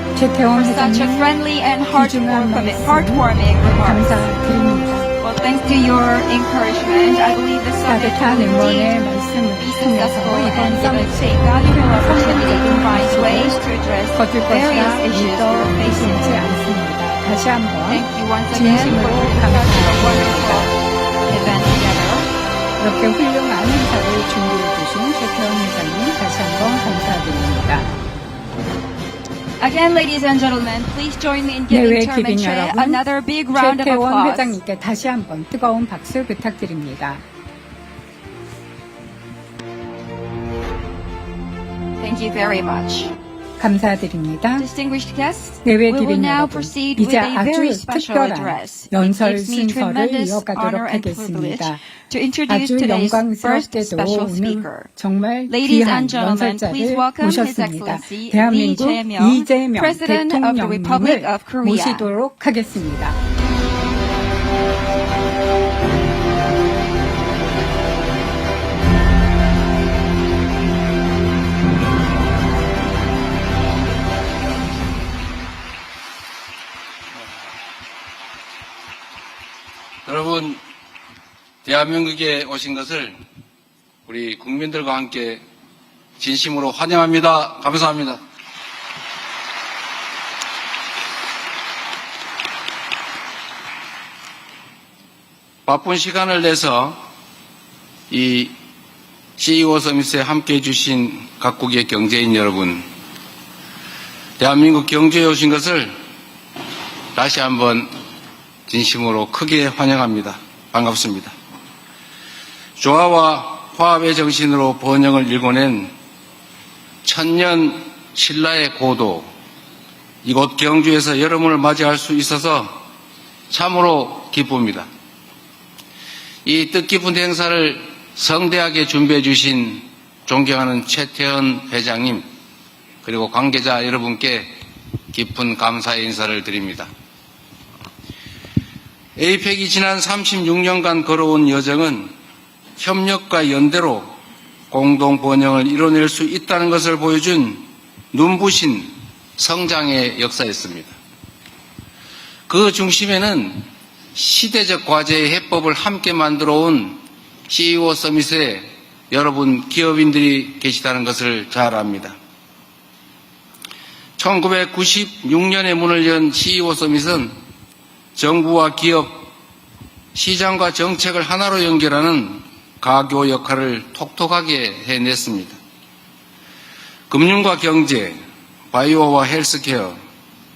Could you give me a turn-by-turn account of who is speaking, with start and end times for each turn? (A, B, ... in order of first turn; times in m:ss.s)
0:00.1-0:01.4 A
0:00.5-0:04.3 B
0:01.9-0:03.3 A
0:03.8-0:05.2 A
0:05.2-0:16.6 B
0:07.9-0:13.6 A
0:14.1-0:20.7 A
0:17.8-0:22.3 B
0:22.8-0:27.9 A
0:29.6-0:34.6 B
0:31.7-0:37.2 A
0:42.0-0:43.1 B
0:43.6-0:44.7 A
0:44.6-1:02.1 B
0:45.6-0:51.8 A
0:52.5-1:03.2 A
1:20.0-1:20.6 C
1:21.6-1:23.2 C
1:24.1-1:25.4 C
1:26.2-1:28.2 C
1:35.7-1:37.0 C
1:38.1-1:38.5 C
1:39.4-1:42.8 C
1:44.4-1:45.9 C
1:47.1-1:47.9 C
1:48.7-1:51.4 C
1:52.8-1:55.9 C
1:57.0-1:59.3 C
2:00.2-2:02.8 C
2:03.5-2:04.9 C
2:06.4-2:12.2 C
2:13.0-2:14.5 C
2:15.1-2:16.9 C
2:19.2-2:22.1 C
2:22.8-2:24.1 C
2:24.7-2:31.0 C
2:32.5-2:42.2 C
2:44.2-2:47.3 C
2:48.2-2:49.3 C
2:50.1-2:55.6 C
2:57.1-2:58.2 C
2:58.7-3:00.0 C